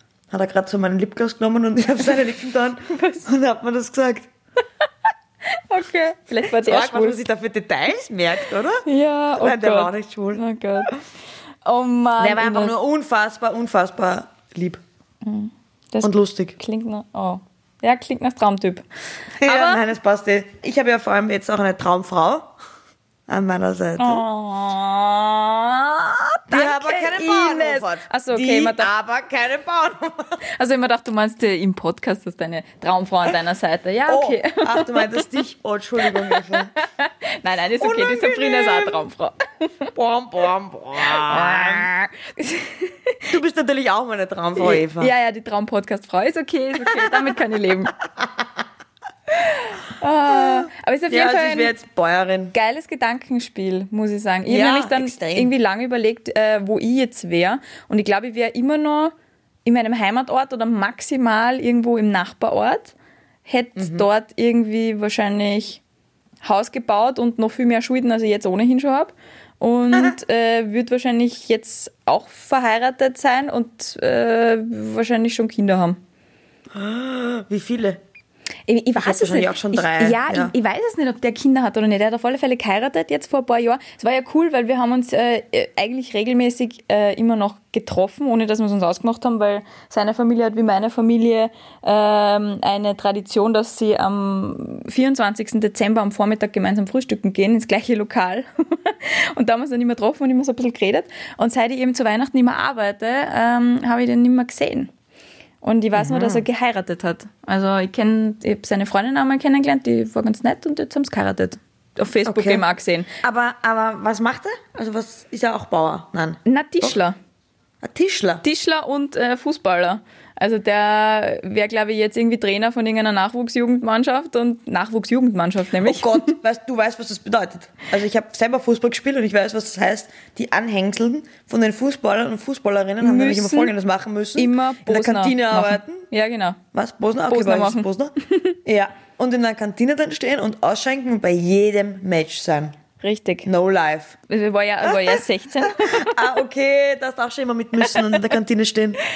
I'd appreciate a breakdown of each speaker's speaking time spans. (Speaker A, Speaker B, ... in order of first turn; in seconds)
Speaker A: 0.3-4.3, 6.5-10.4, 12.2-14.8, 16.0-16.6, 19.4-22.5, 23.3-24.2, 26.5-30.4, 34.1-36.7, 37.8-39.1, 39.9-41.9, 43.3-45.1, 46.9-47.1, 50.3-52.5, 54.5-55.5, 63.8-64.0, 76.7-78.0, 79.0-80.5, 105.9-106.4, 112.2-112.6, 113.2-116.9, 117.8-118.4, 125.8-136.0, 136.7-138.1, 138.6-142.8, 143.4-144.2, 144.9-149.0
Speaker B: 2.9-3.3, 5.5-7.2, 8.8-10.9, 11.6-12.7, 15.2-18.8, 19.4-19.8, 24.0-28.9, 30.5-35.3, 36.0-39.9, 41.0-43.3, 44.6-47.9, 49.3-51.7, 52.5-59.1, 59.6-62.9, 63.5-65.8, 66.4-76.0, 78.7-104.9, 105.6-113.1, 116.5-117.2, 118.4-126.3, 133.0-133.7, 134.4-136.6, 137.3-138.5, 143.0-143.5, 144.3-146.1